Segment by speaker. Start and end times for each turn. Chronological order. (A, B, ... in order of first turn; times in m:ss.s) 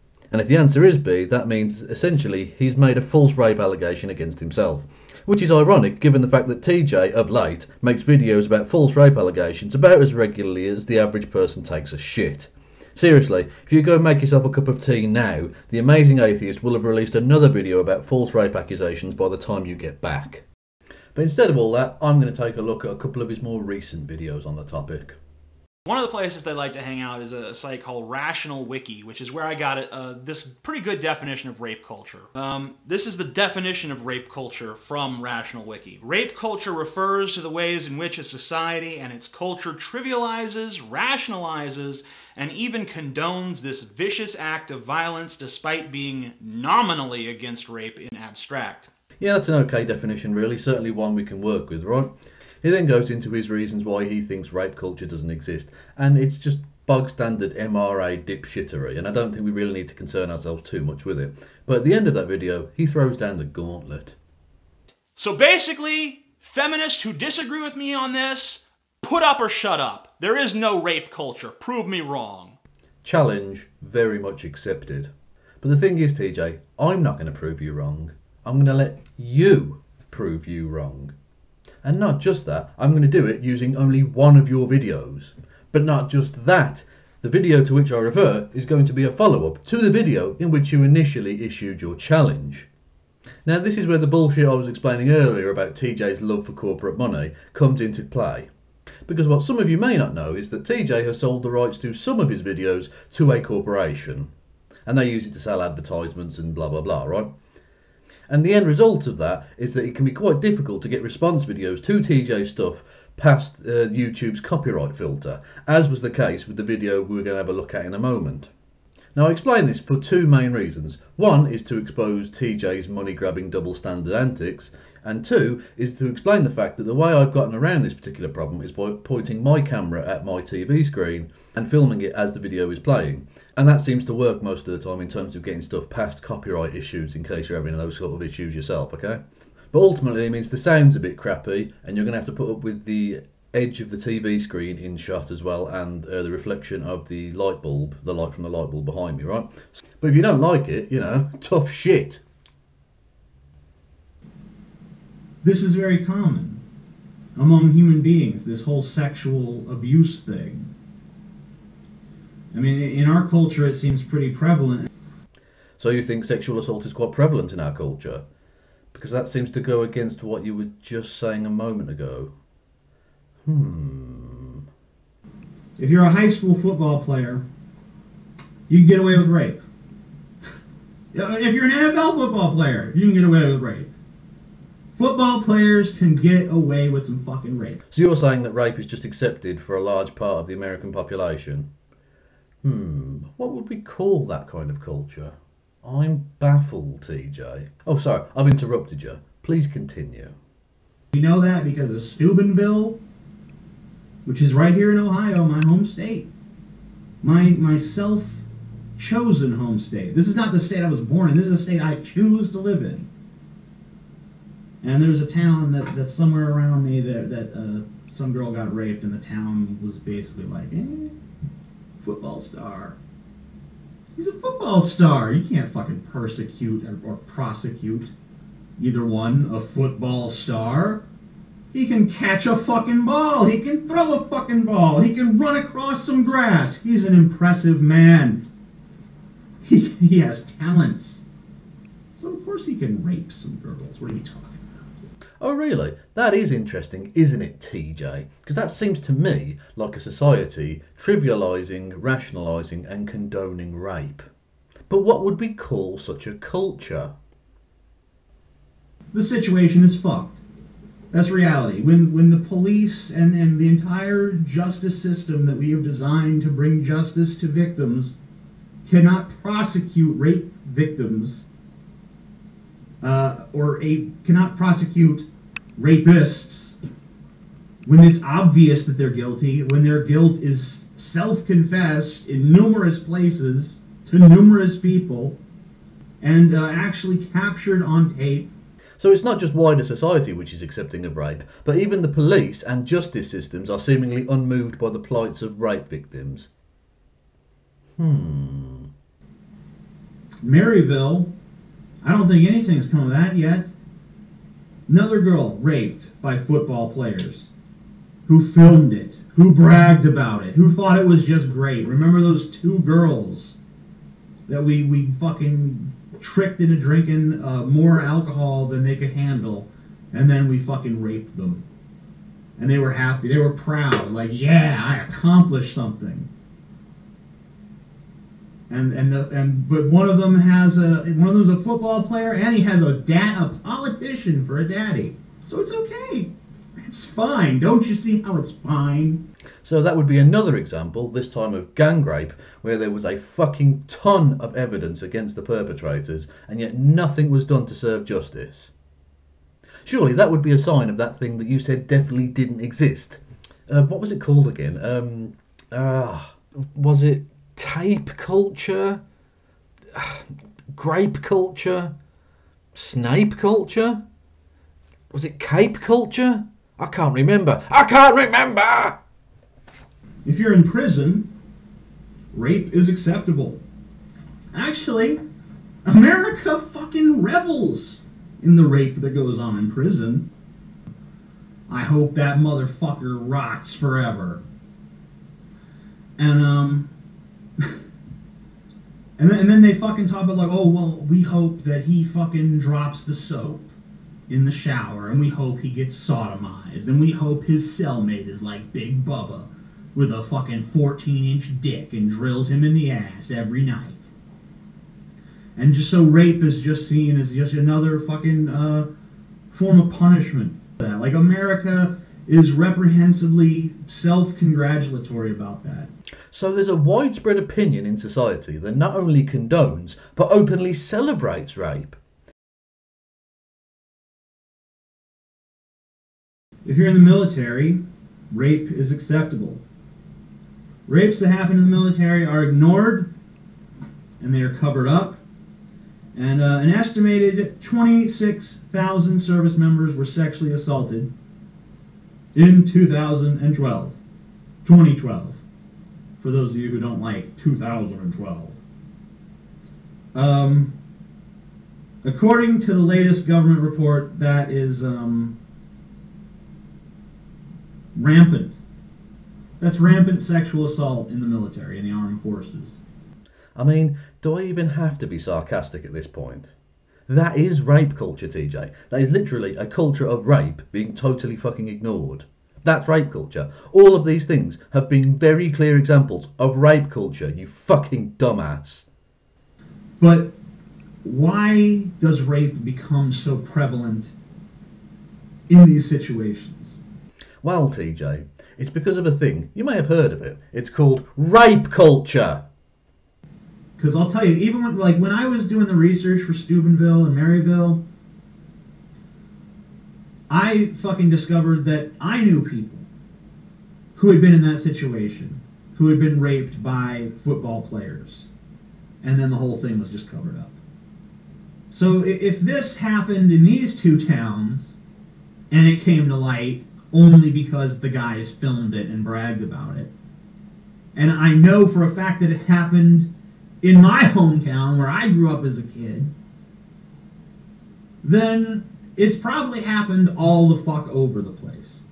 0:00.3-0:20.4 A
0:21.1-0:25.2 A
0:25.8-0:48.9 B
0:49.2-1:04.2 A
1:05.2-1:12.6 B
1:13.0-1:21.1 A
1:21.8-1:32.7 A
1:33.4-1:38.5 A
1:39.0-1:44.3 A
1:44.8-1:47.3 A
1:48.3-1:58.5 A
1:59.1-2:32.2 A
2:35.4-2:36.6 C
2:37.4-2:40.7 C
2:42.5-2:44.9 C
2:45.8-2:48.2 A
2:48.9-2:52.3 A
2:53.4-2:54.6 A
2:55.8-2:57.4 C
2:58.7-2:59.6 C
3:01.1-3:03.9 C
3:05.0-3:07.8 C
3:07.9-3:11.7 A
3:12.6-3:20.4 A
3:21.1-3:23.0 C
3:24.2-3:26.3 C
3:27.2-3:28.4 C
3:29.0-3:33.1 C
3:34.8-3:41.2 C
3:42.0-3:43.0 C
3:44.2-3:48.1 C
3:48.8-3:51.0 C
3:51.7-3:58.4 C
3:59.6-4:01.2 C
4:02.2-4:04.6 C
4:05.4-4:14.2 A
4:14.9-4:17.1 A
4:19.1-4:20.4 C
4:21.1-4:28.2 C
4:28.8-4:31.4 C
4:33.0-4:36.7 C
4:37.8-4:45.4 C
4:46.2-4:48.5 C
4:49.0-4:56.5 A
4:58.0-4:58.9 A
5:00.4-5:01.3 C
5:02.0-5:03.7 C
5:04.9-5:07.5 C
5:08.2-5:13.6 C
5:14.5-5:21.6 C
5:22.6-5:26.3 C
5:28.7-5:39.2 C
5:39.6-5:48.7 A
5:49.8-5:59.0 A
5:59.9-6:02.0 A
6:02.7-6:04.0 A
6:05.1-6:09.0 A
6:10.2-6:11.3 C
6:12.3-6:13.6 C
6:14.5-6:15.2 C
6:15.8-6:20.3 C
6:21.7-6:24.4 C
6:26.2-6:26.9 C
6:29.2-6:33.7 C
6:34.3-6:44.1 C
6:45.6-6:48.9 C
6:49.5-6:55.9 C
6:56.3-7:02.0 A
7:06.6-7:09.6 C
7:10.9-7:13.1 C
7:14.2-7:15.2 C
7:16.1-7:21.1 C
7:22.3-7:24.0 C
7:24.6-7:25.4 C
7:26.2-7:28.6 C
7:30.1-7:30.8 C
7:32.0-7:35.4 C
7:37.9-7:38.6 C
7:39.6-7:42.8 C
7:43.6-7:46.5 A
7:47.1-7:58.9 A
8:00.0-8:00.4 C
8:01.0-8:04.1 C
8:05.5-8:06.8 C
8:07.4-8:12.5 A
8:13.8-8:17.8 C
8:20.3-8:22.9 C
8:23.9-8:28.3 C
8:29.0-8:30.6 C
8:31.7-8:34.7 C
8:35.5-8:39.9 C
8:40.9-8:43.1 C
8:43.6-8:46.1 C
8:48.0-8:51.8 C